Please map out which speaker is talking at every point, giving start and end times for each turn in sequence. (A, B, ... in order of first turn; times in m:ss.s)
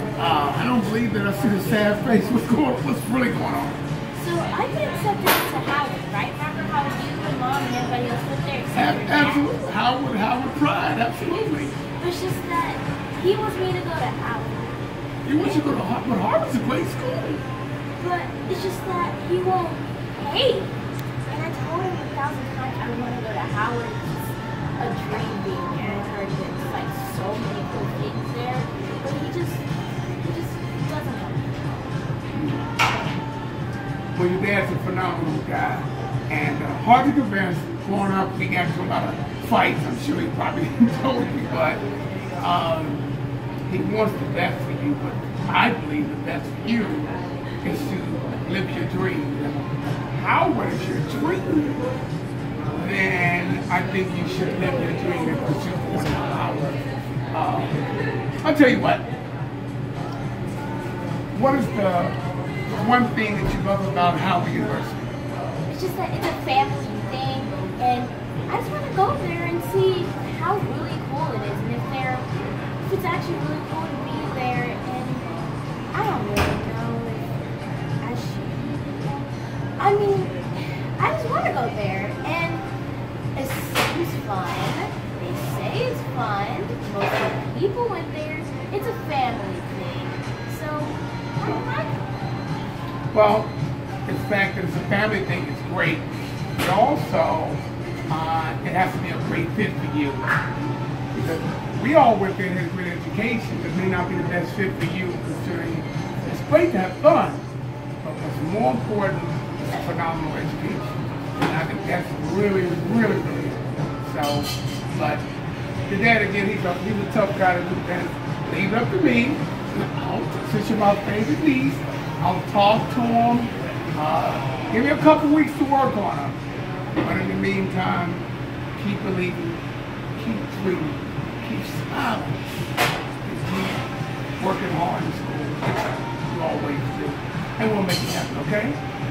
0:00.2-0:03.8 A
0:04.1-0:09.6 B
0:08.7-0:11.8 A
0:12.0-0:14.8 B
0:15.2-0:17.4 A
0:15.4-0:15.6 B
0:18.0-0:20.7 B
0:21.2-0:29.6 B
0:30.2-0:31.6 B
0:32.3-0:32.7 A
0:34.2-0:41.8 A
0:42.4-0:43.1 A
0:43.7-0:51.8 A
0:52.8-0:56.8 A
0:57.3-0:57.8 A
0:58.4-0:59.1 A
1:01.3-1:02.2 A
1:02.7-1:05.1 A
1:05.7-1:12.3 B
1:12.8-1:15.3 B
1:15.9-1:17.4 B
1:18.0-1:22.7 B
1:23.4-1:32.0 B
1:33.1-1:33.5 A
1:34.1-1:40.3 A
1:41.1-1:47.5 A
1:48.0-1:55.2 A
1:55.9-2:06.4 A
2:07.0-2:08.2 A
2:08.8-2:09.6 A
2:10.2-2:12.5 A
2:13.2-2:13.8 A
2:14.4-2:15.6 A
2:16.3-2:18.8 A